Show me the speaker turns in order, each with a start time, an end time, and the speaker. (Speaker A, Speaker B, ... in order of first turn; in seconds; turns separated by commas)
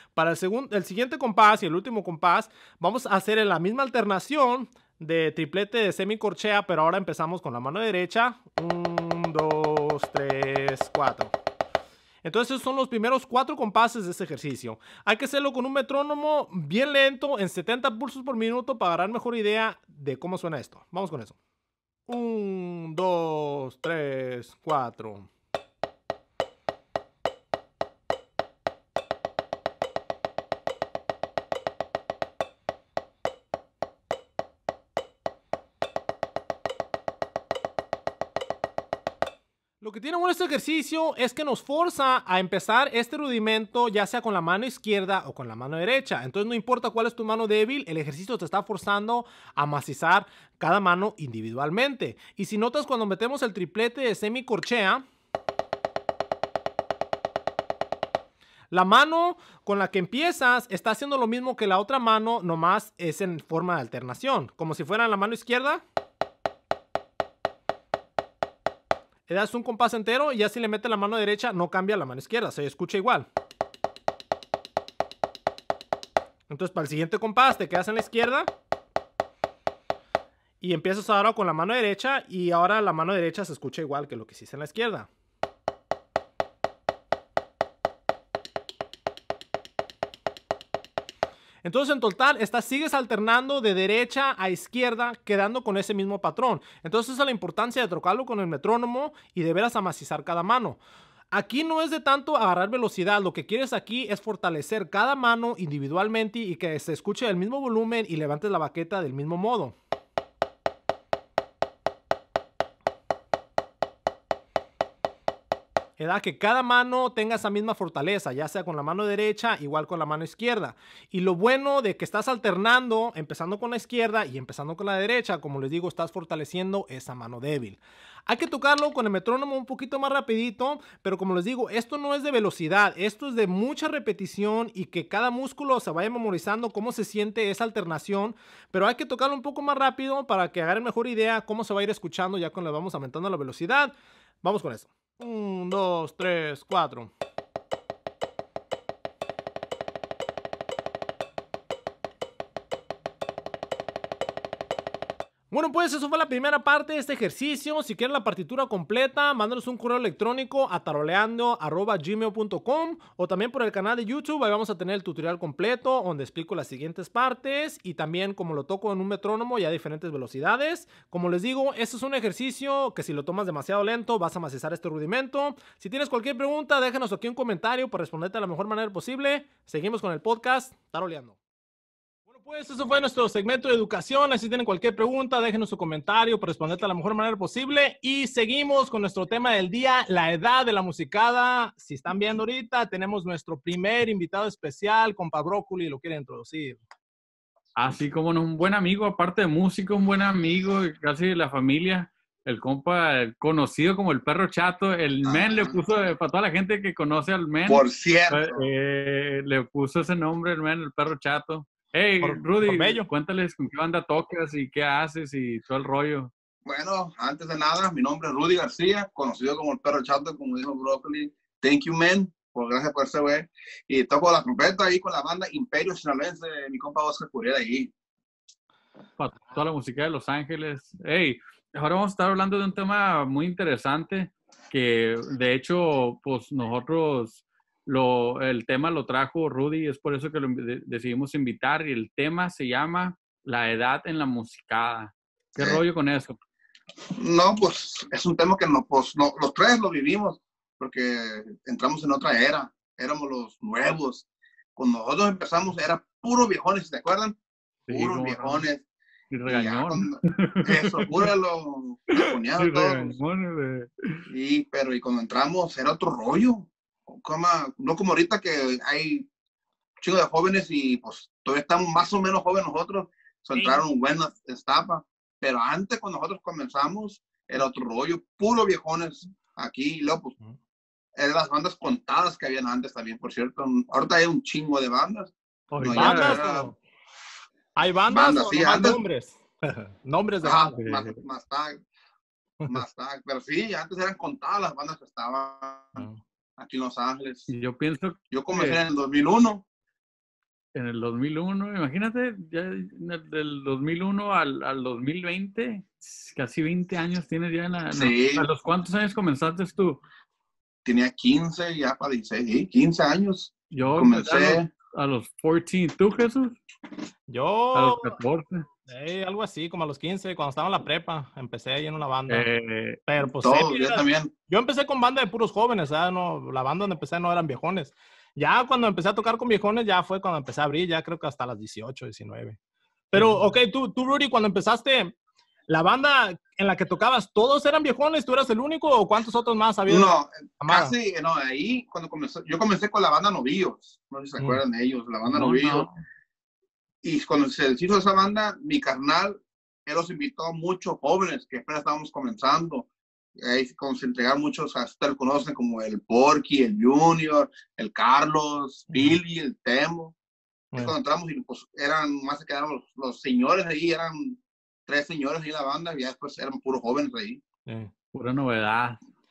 Speaker A: 0.2-11.3, Speaker A: 12.2-21.4, Speaker A: 22.1-25.3, Speaker A: 39.8-55.0, Speaker A: 58.7-65.8, Speaker A: 69.3-73.3, Speaker A: 76.5-78.5, Speaker A: 80.6-85.1, Speaker A: 91.6-100.8, Speaker A: 101.3-109.8, Speaker A: 116.0-147.1, Speaker A: 155.5-181.4, Speaker A: 182.3-196.8, Speaker B: 197.8-216.3, Speaker C: 205.2-205.8, Speaker C: 207.7-208.7, Speaker A: 212.2-213.1, Speaker C: 216.7-227.9, Speaker B: 229.2-246.4, Speaker C: 245.6-245.8, Speaker C: 247.2-257.4, Speaker B: 257.9-258.7, Speaker C: 257.9-258.8, Speaker B: 259.3-261.3, Speaker C: 259.5-263.1, Speaker B: 262.1-264.3, Speaker C: 264.3-269.3, Speaker C: 270.0-280.4, Speaker C: 281.2-286.7, Speaker B: 285.7-286.5, Speaker A: 285.9-286.8, Speaker A: 287.8-290.8, Speaker C: 288.1-289.0, Speaker C: 290.4-291.8, Speaker B: 290.8-291.2, Speaker C: 292.7-296.1, Speaker C: 296.6-297.5, Speaker B: 297.5-298.8, Speaker C: 298.3-299.6, Speaker B: 300.7-310.0, Speaker C: 307.9-308.5, Speaker C: 310.9-314.7, Speaker B: 313.7-316.6, Speaker A: 317.3-318.2, Speaker B: 317.7-318.7, Speaker A: 318.9-322.5, Speaker B: 322.3-323.0, Speaker A: 323.1-332.6, Speaker C: 323.2-324.3, Speaker A: 333.1-335.1, Speaker A: 335.7-340.9, Speaker C: 339.9-345.9, Speaker B: 345.3-345.9, Speaker C: 347.0-360.1, Speaker A: 358.9-359.2, Speaker C: 360.8-367.4, Speaker A: 367.7-367.9, Speaker B: 368.1-369.0